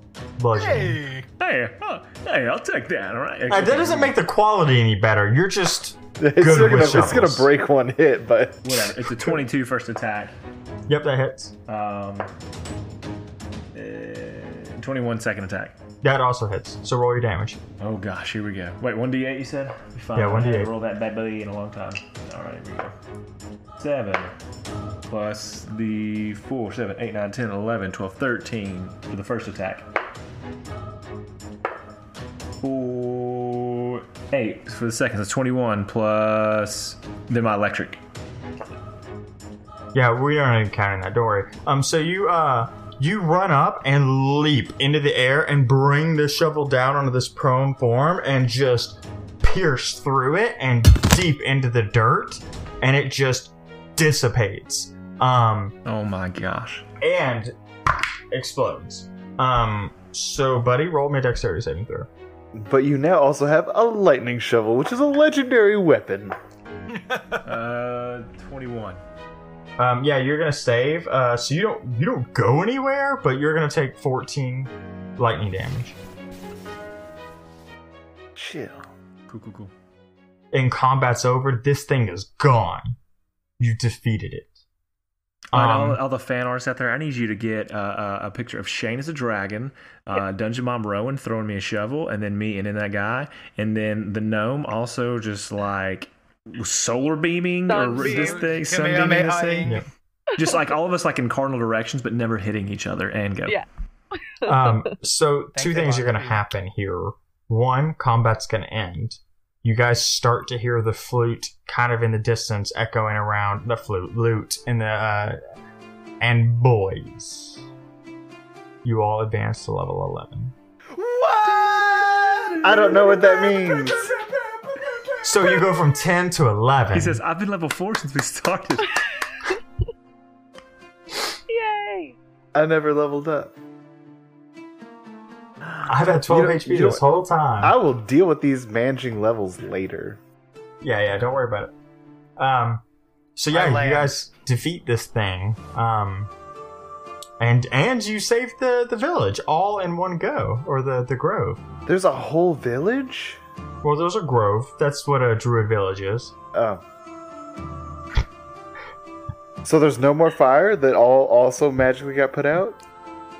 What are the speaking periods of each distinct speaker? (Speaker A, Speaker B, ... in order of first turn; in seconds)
Speaker A: 0.4-1.0, 3.5-7.5, 10.9-11.5, 16.0-17.6, 20.1-20.7, 39.9-55.7, 57.0-57.5, 58.3-62.1, 69.8-76.0, 80.5-83.0, 83.6-84.5, 85.5-86.0, 104.4-115.4, 116.2-117.6, 118.8-120.5, 125.2-127.2, 135.8-137.8, 140.8-141.7, 142.4-142.8, 143.3-146.3, 147.4-151.6, 153.8-156.3
Speaker B: 0.5-1.3, 66.9-67.4, 97.9-99.8, 105.5-106.4, 120.9-125.5, 143.5-144.3
Speaker C: 1.4-4.2, 6.8-7.2, 8.6-10.3, 11.7-12.3, 13.7-15.8, 17.8-22.9, 23.8-24.3, 25.1-29.9, 32.6-38.0, 55.9-56.8, 67.4-69.0, 79.3-79.7, 85.5-99.8, 100.3-103.6, 121.7-123.1, 126.9-129.0
Speaker D: 6.2-9.4, 62.5-66.3, 78.3-78.9, 122.6-124.1, 132.5-133.5, 135.8-137.1, 137.6-140.2, 151.8-153.4, 156.5-156.8, 159.6-162.8
Speaker E: 97.7-98.4, 104.3-104.7, 131.5-132.2